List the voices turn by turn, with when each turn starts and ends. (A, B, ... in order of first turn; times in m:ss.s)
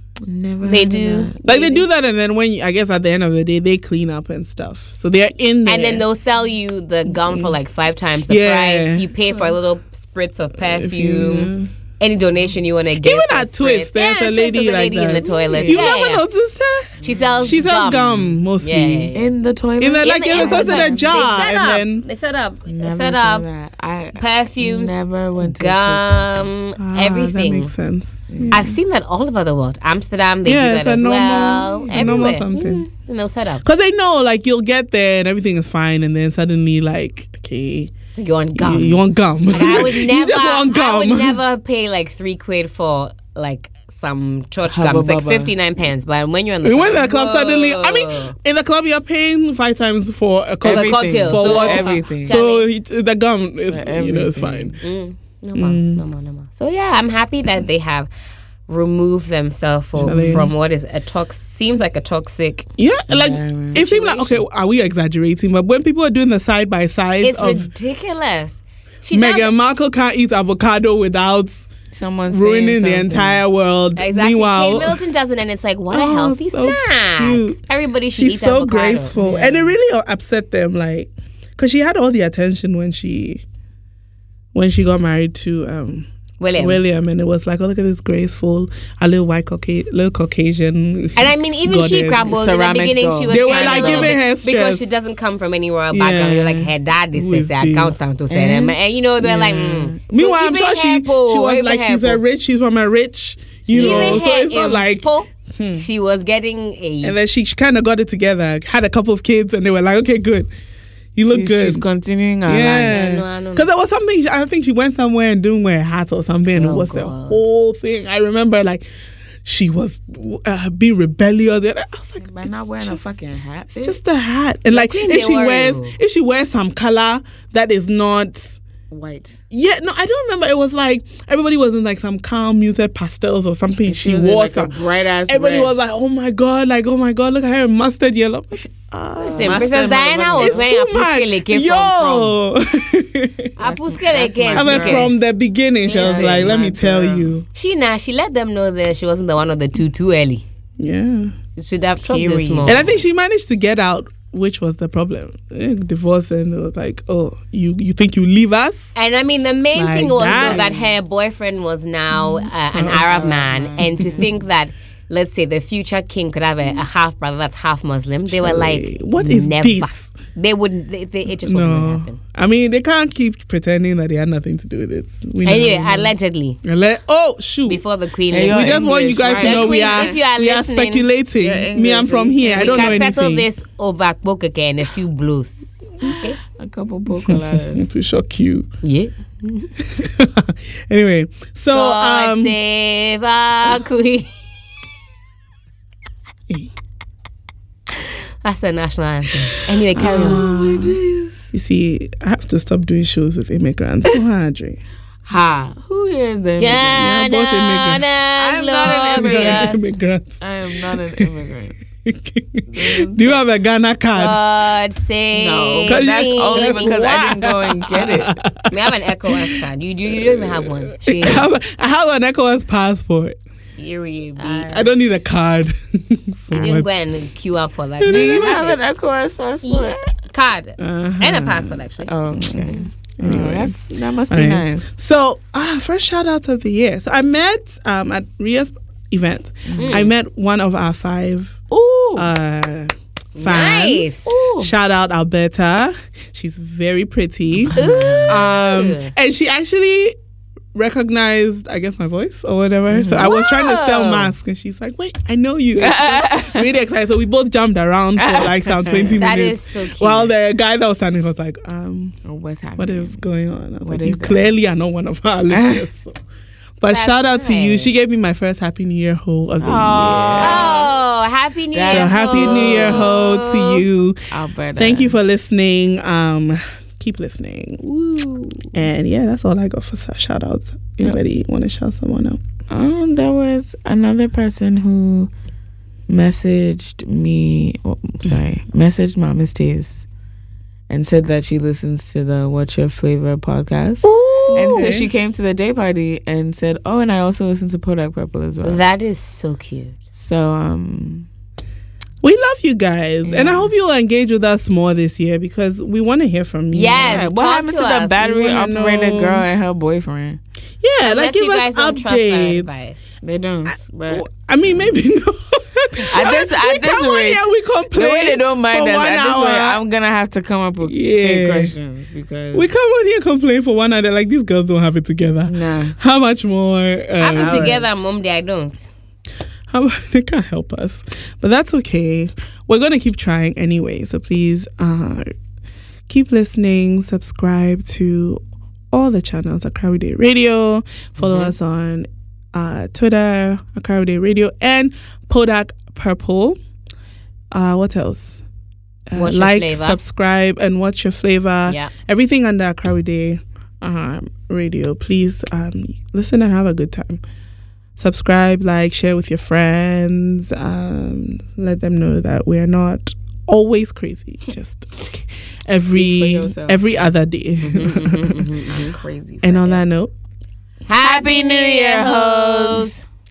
0:00.3-0:01.3 A
0:00.6-0:01.9 B
0:01.4-0:06.0 C
0:05.7-0:16.2 B
0:07.1-0:07.5 C
0:08.3-0:09.1 C
0:09.3-0:09.6 A
0:10.6-0:11.7 C
0:13.0-0:19.1 C
0:15.5-0:15.9 A
0:17.0-0:17.7 A
0:17.0-0:19.3 B
0:19.1-0:21.3 A
0:19.8-0:22.0 C
0:20.0-0:23.5 B
0:22.7-0:26.5 A
0:24.2-0:27.7 B
0:26.8-0:28.7 C
0:28.3-0:28.8 A
0:28.5-0:33.6 B
0:30.4-0:32.9 C
0:31.9-0:32.3 A
0:33.6-0:37.9 C
0:38.2-0:48.4 B
0:38.6-0:41.4 C
0:44.7-0:45.5 A
0:46.6-0:54.8 C
0:50.6-0:52.4 A
0:50.6-0:52.7 B
0:53.7-0:54.8 A
0:54.8-0:58.1 B
0:55.6-0:56.0 C
0:58.7-1:02.7 B
1:00.0-1:00.5 C
1:02.8-1:07.7 C
1:03.1-1:04.4 A
1:07.2-1:09.5 B
1:09.1-1:11.7 C
1:11.9-1:13.4 A
1:12.3-1:15.0 C
1:14.0-1:19.6 B
1:15.9-1:17.6 C
1:18.1-1:23.4 C
1:19.1-1:19.6 A
1:24.5-1:32.3 C
1:26.4-1:26.8 B
1:31.2-1:42.2 B
1:32.2-1:34.2 A
1:33.3-1:35.1 C
1:35.9-1:38.1 C
1:38.3-1:38.8 A
1:39.2-1:45.8 C
1:43.7-1:44.2 A
1:43.7-1:47.2 B
1:47.0-1:50.5 C
1:51.2-1:51.8 C
1:51.2-1:53.0 A
1:52.5-1:58.9 C
1:52.8-1:53.7 B
1:56.6-1:57.4 B
1:59.4-2:03.2 C
2:02.2-2:04.2 A
2:03.8-2:08.6 C
2:04.7-2:06.0 B
2:08.9-2:09.4 A
2:09.5-2:19.9 C
2:13.9-2:15.8 A
2:18.5-2:20.6 A
2:19.2-2:22.4 B
2:20.4-2:23.5 C
2:23.6-2:25.2 B
2:23.6-2:25.2 A
2:24.5-2:27.5 C
2:25.8-2:26.6 B
2:25.9-2:27.4 A
2:27.5-2:30.4 B
2:30.8-2:31.3 C
2:31.6-2:32.9 B
2:32.0-2:33.0 A
2:32.6-2:38.9 C
2:39.0-2:52.2 B
2:39.8-2:40.7 C
2:40.2-2:40.9 A
2:42.2-2:43.1 C
2:42.8-2:44.4 A
2:43.8-2:44.3 C
2:48.3-2:50.1 C
2:51.4-2:57.8 C
2:55.4-2:56.6 B
2:57.7-3:01.1 B
2:58.3-3:00.2 A
2:58.4-3:03.5 C
3:01.4-3:03.1 A
3:02.6-3:06.4 B
3:06.0-3:07.9 A
3:07.2-3:08.7 C
3:08.8-3:09.7 B
3:09.9-3:12.6 C
3:11.7-3:14.4 B
3:18.4-3:20.5 B
3:20.0-3:21.0 C
3:20.0-3:21.5 A
3:21.5-3:24.8 C
3:25.3-3:27.0 A
3:26.6-3:29.9 B
3:26.9-3:28.1 C
3:28.4-3:29.9 A
3:28.8-3:31.3 C
3:30.4-3:31.8 A
3:32.0-3:34.4 C
3:32.7-3:33.4 A
3:34.1-3:37.1 B
3:35.3-3:38.4 A
3:35.9-3:43.4 C
3:38.7-3:41.5 B
3:43.8-3:44.9 A
3:44.4-3:44.9 B
3:44.7-3:46.9 C
3:46.5-3:48.8 B
3:48.0-3:48.7 C
3:48.1-3:50.0 A
3:49.6-3:52.1 B
3:50.8-3:51.8 C
3:52.1-3:54.9 A
3:52.4-3:53.8 C
3:54.3-4:01.6 C
3:59.7-4:00.1 A
3:59.8-4:00.1 B
4:01.7-4:02.3 A
4:02.2-4:10.2 C
4:03.4-4:04.3 B
4:04.3-4:04.7 A
4:07.7-4:08.5 A
4:07.8-4:09.1 B
4:10.7-4:22.2 C
4:12.9-4:13.3 A
4:13.2-4:14.3 B
4:15.8-4:16.7 A
4:18.2-4:19.3 A
4:19.2-4:20.3 B
4:22.2-4:23.2 A
4:22.8-4:26.2 C
4:23.8-4:24.5 A
4:25.5-4:25.9 A
4:26.8-4:30.9 C
4:26.9-4:27.9 B
4:29.6-4:30.9 A
4:30.4-4:33.8 B
4:31.7-4:33.2 A
4:31.9-4:34.2 C
4:34.3-4:35.2 A
4:34.8-4:37.8 C
4:37.8-4:38.8 A
4:38.7-4:42.4 C
4:42.7-4:45.3 A
4:46.1-4:50.0 A
4:50.9-4:58.8 A
4:54.0-4:54.9 B
4:54.5-4:55.1 C
4:58.6-5:00.0 B
5:00.1-5:01.3 A
5:02.2-5:07.4 C
5:03.2-5:03.7 A
5:06.7-5:08.2 B
5:06.9-5:10.4 A
5:08.2-5:09.5 C
5:10.8-5:12.7 C
5:11.0-5:13.2 B
5:13.2-5:14.3 A
5:14.1-5:19.8 C
5:16.1-5:22.7 A
5:20.8-5:21.7 C
5:22.5-5:27.9 C
5:25.5-5:26.0 A
5:27.2-5:28.9 B
5:29.7-5:35.3 C
5:36.1-5:46.6 C
5:41.2-5:41.5 B
5:47.5-5:48.4 C
5:49.1-5:57.2 C
5:49.2-5:50.0 B
5:58.0-6:08.5 C
6:06.0-6:06.8 A
6:07.6-6:09.0 B
6:08.7-6:09.8 A
6:09.4-6:10.1 C
6:10.9-6:13.0 B
6:11.0-6:13.0 A